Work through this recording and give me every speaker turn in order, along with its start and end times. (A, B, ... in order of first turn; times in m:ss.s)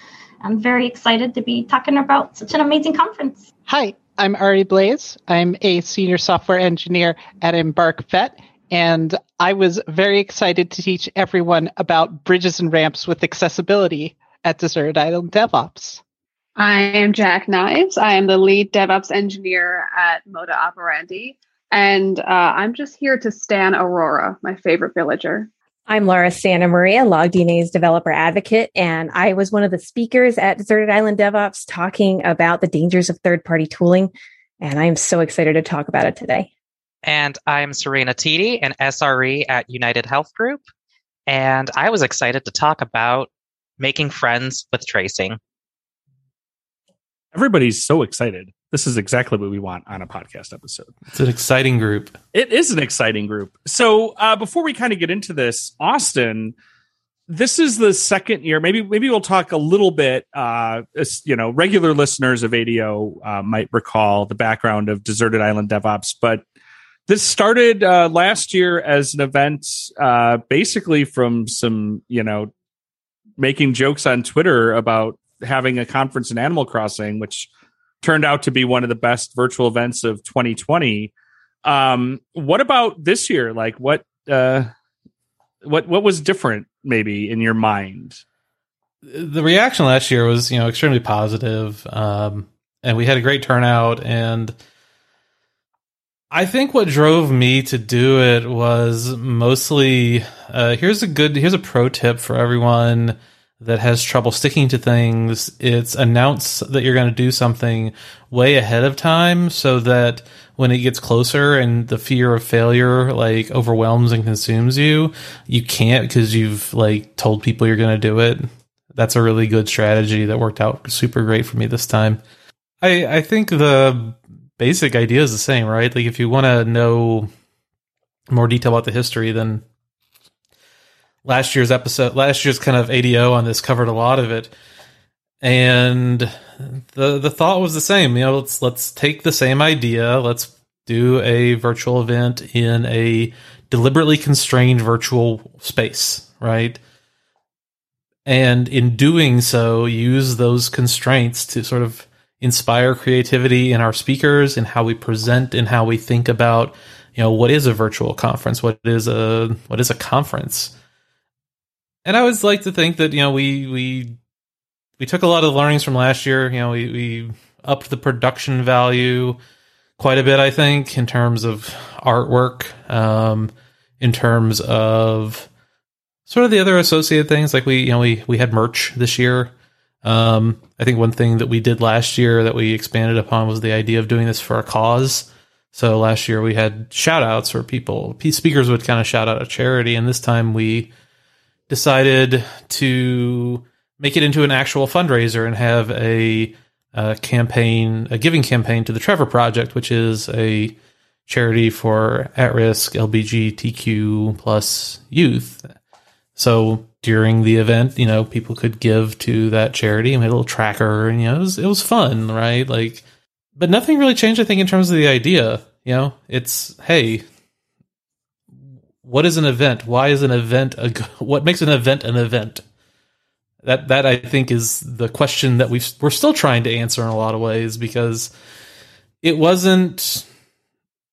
0:00.4-0:03.5 A
0:03.7-0:16.0 B
0:16.6-0:25.5 C
0:25.9-0:36.5 D
0:37.0-0:40.6 E
0:41.3-0:45.4 E
0:47.3-0:50.9 F
0:51.1-0:52.2 G
0:52.3-0:56.5 F
0:57.3-1:06.4 F
1:07.1-1:12.5 F
1:13.4-1:17.5 F
1:18.0-1:21.1 F
1:21.6-1:24.7 F
1:25.6-1:28.2 F
1:29.0-1:34.6 G
1:36.3-2:02.2 G
2:02.8-2:07.3 G
2:08.3-2:09.6 G
2:11.2-2:14.5 G
2:15.4-2:26.8 G
2:28.2-2:40.7 G
2:42.0-2:44.2 G
2:45.0-2:49.4 G
2:50.0-2:55.5 G
2:56.3-2:59.5 G
3:00.0-3:10.9 G
3:11.7-3:20.7 G
3:21.3-3:25.7 G
3:26.3-3:33.0 G
3:33.6-3:37.2 G
3:39.0-3:42.6 G
3:43.6-3:48.3 G
3:49.2-3:50.2 G